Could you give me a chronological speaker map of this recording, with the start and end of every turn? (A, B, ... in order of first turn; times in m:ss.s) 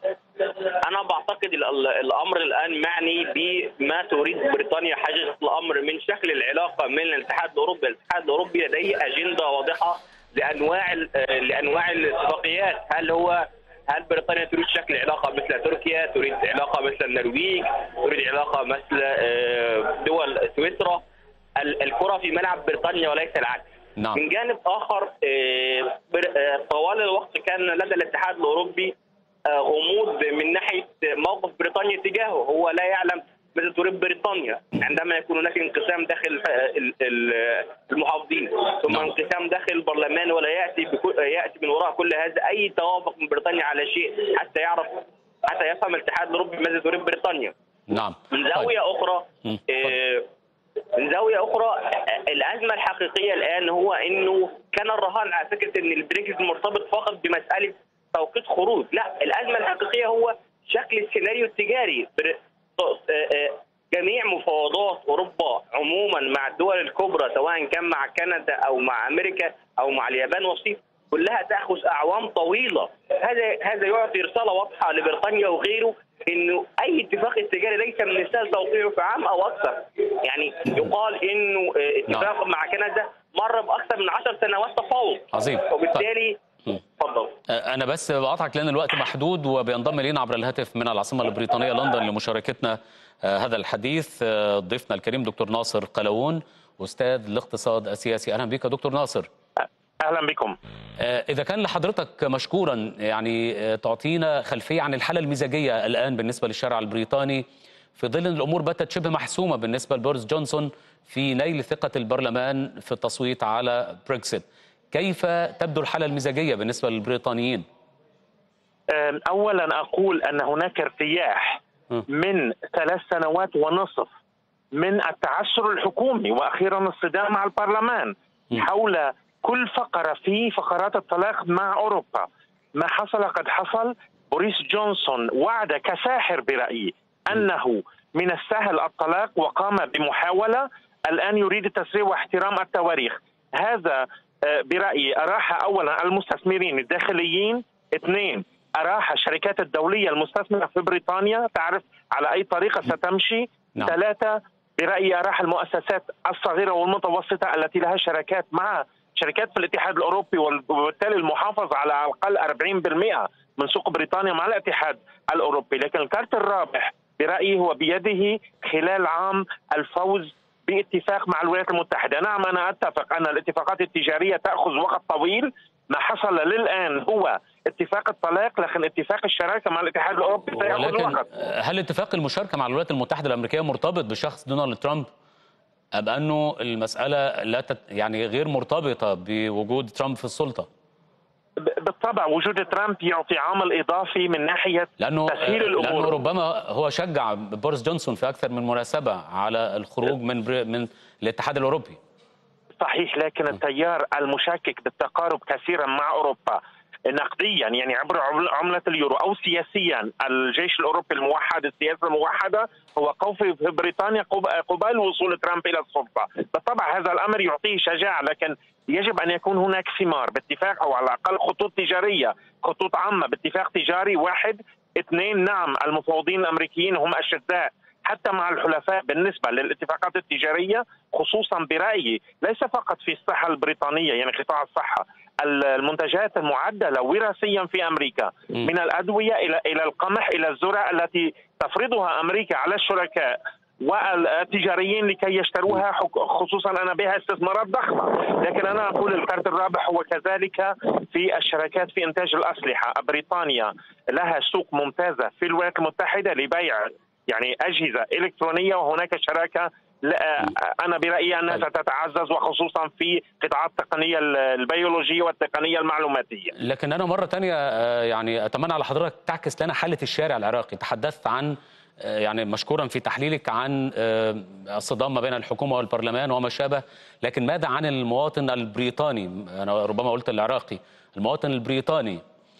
0:00.5-0:21.0 A
0:21.6-0:28.9 A
0:24.0-0:24.2 B
0:29.4-0:47.5 A
0:38.9-0:39.1 B
0:47.9-0:48.7 B
0:48.3-0:50.3 A
0:49.5-0:50.0 B
0:50.9-1:26.4 A
1:25.3-1:26.0 B
1:27.0-1:27.3 A
1:27.5-1:39.3 B
1:40.0-1:40.6 C
1:41.0-1:47.4 B
1:48.0-1:57.6 B
1:58.9-2:04.1 C
2:04.7-3:01.2 C
3:00.6-3:05.1 B
3:05.9-3:10.7 B
3:11.6-3:16.2 C
3:15.0-3:22.0 B
3:22.8-4:26.5 C
4:26.6-4:42.2 B